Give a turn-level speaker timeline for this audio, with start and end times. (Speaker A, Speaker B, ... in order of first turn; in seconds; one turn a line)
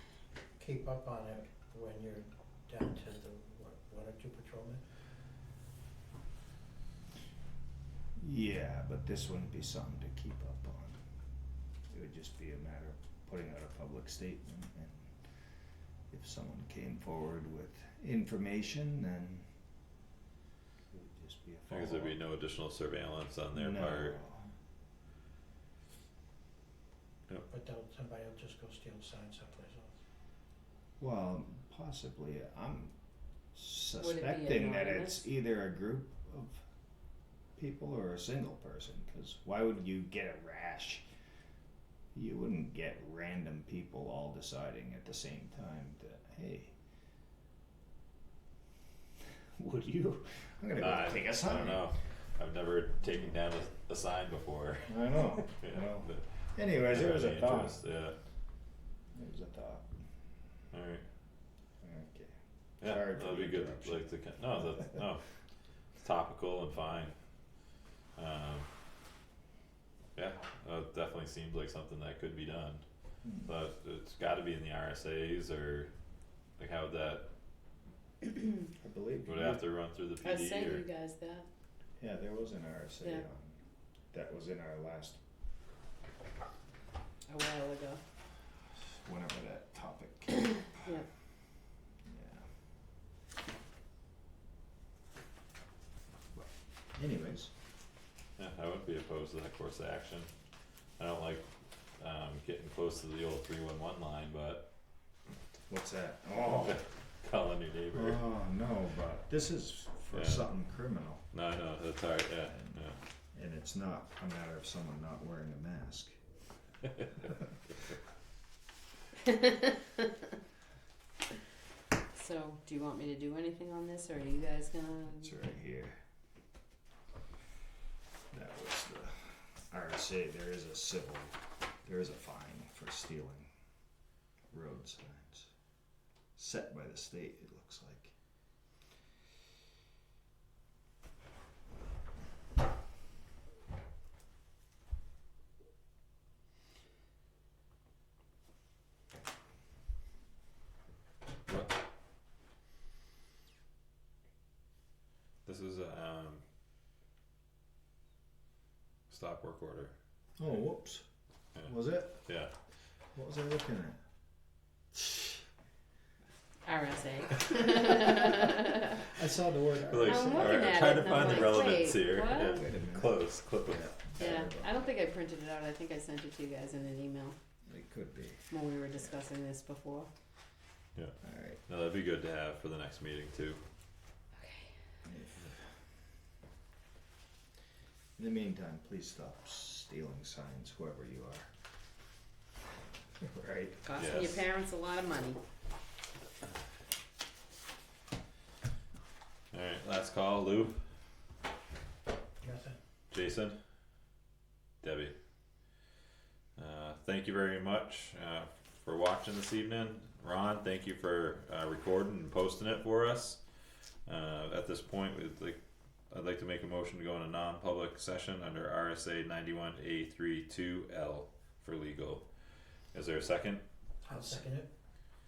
Speaker A: 0.6-4.8
Speaker B: 8.2-11.0
Speaker B: 11.9-15.2
Speaker B: 16.1-19.5
Speaker B: 20.9-22.2
Speaker C: 21.7-24.2
Speaker B: 23.5-24.5
Speaker A: 27.5-30.0
Speaker B: 31.0-32.9
Speaker B: 33.5-36.6
Speaker D: 34.0-35.2
Speaker B: 37.6-41.0
Speaker B: 42.1-46.7
Speaker B: 49.6-51.9
Speaker C: 50.8-55.0
Speaker B: 54.9-57.8
Speaker C: 55.5-58.2
Speaker B: 59.1-59.9
Speaker C: 60.7-61.0
Speaker B: 61.8-64.1
Speaker C: 62.8-65.2
Speaker C: 66.0-67.2
Speaker C: 68.2-68.7
Speaker C: 70.2-72.8
Speaker B: 73.2-73.5
Speaker C: 73.4-75.9
Speaker C: 76.6-77.3
Speaker B: 78.8-79.6
Speaker C: 79.3-80.9
Speaker D: 80.2-81.5
Speaker B: 82.0-83.6
Speaker B: 84.1-85.2
Speaker D: 87.3-88.0
Speaker B: 89.0-90.7
Speaker B: 92.1-92.4
Speaker B: 96.4-97.5
Speaker C: 98.4-100.3
Speaker C: 101.0-104.7
Speaker B: 105.7-106.8
Speaker C: 106.5-108.2
Speaker B: 107.9-111.2
Speaker C: 110.1-110.5
Speaker C: 111.3-113.0
Speaker B: 112.5-112.8
Speaker B: 113.3-116.2
Speaker D: 119.3-119.6
Speaker D: 122.1-125.3
Speaker B: 125.2-126.0
Speaker B: 128.3-133.5
Speaker B: 134.5-135.5
Speaker B: 136.4-138.1
Speaker C: 151.5-151.8
Speaker C: 155.5-156.4
Speaker C: 159.1-159.9
Speaker B: 160.4-161.0
Speaker B: 161.6-162.2
Speaker C: 162.2-162.5
Speaker B: 163.2-164.0
Speaker B: 165.0-165.2
Speaker D: 166.7-169.1
Speaker B: 169.1-174.9
Speaker C: 169.9-174.1
Speaker D: 170.1-172.6
Speaker D: 174.2-177.4
Speaker B: 177.7-178.5
Speaker D: 178.5-180.1
Speaker C: 180.9-183.6
Speaker B: 181.2-181.6
Speaker D: 184.4-184.7
Speaker B: 185.1-185.6
Speaker B: 188.2-191.5
Speaker B: 193.2-193.9
Speaker D: 193.8-195.4
Speaker C: 194.0-194.4
Speaker C: 199.5-200.8
Speaker A: 202.4-202.8
Speaker C: 203.1-203.6
Speaker C: 204.8-205.1
Speaker C: 206.6-213.4
Speaker C: 214.1-215.6
Speaker C: 216.1-222.2
Speaker C: 222.9-223.6
Speaker A: 224.0-224.7